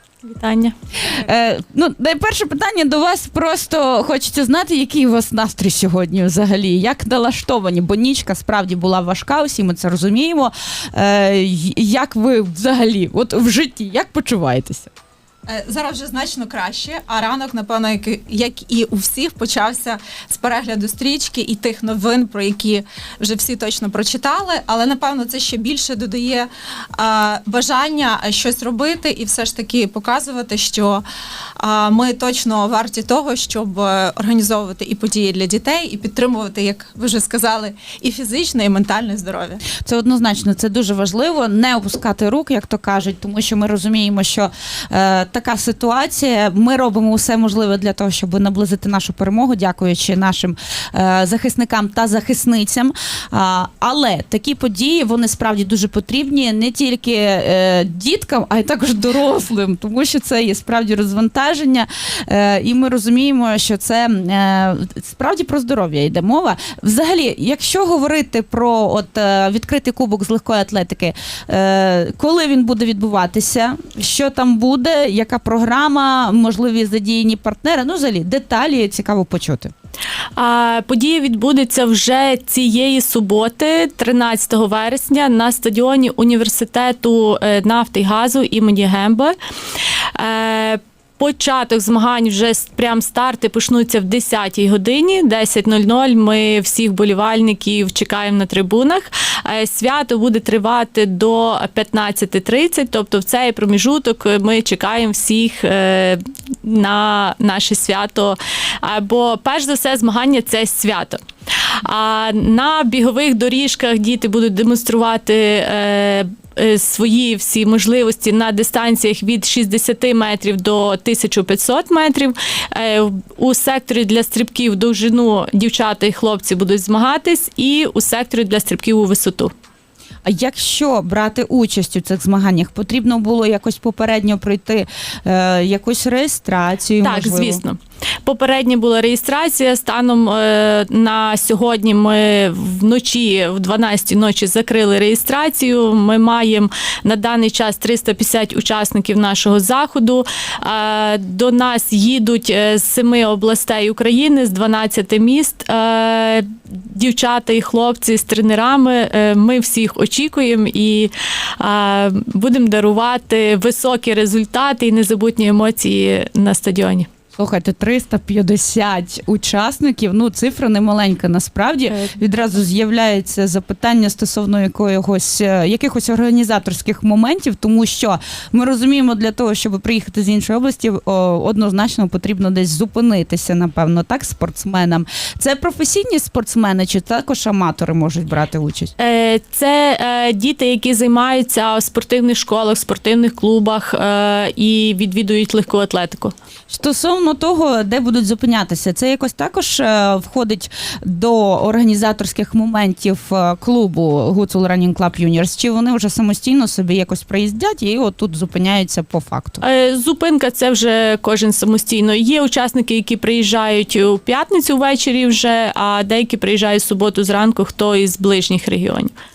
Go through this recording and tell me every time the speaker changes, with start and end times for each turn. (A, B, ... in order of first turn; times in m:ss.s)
0:00.2-0:00.7 A
0:01.0-0:14.9 B
0:15.5-0:31.0 C
0:31.6-0:39.6 C
0:39.7-1:19.7 B
1:20.4-1:29.3 A
1:30.1-2:09.5 A
2:10.2-2:17.6 B
2:17.0-2:47.1 A
2:47.3-3:08.9 B
2:51.9-2:52.2 A
3:09.0-3:16.3 A
3:16.7-3:29.6 B
3:29.6-3:39.1 A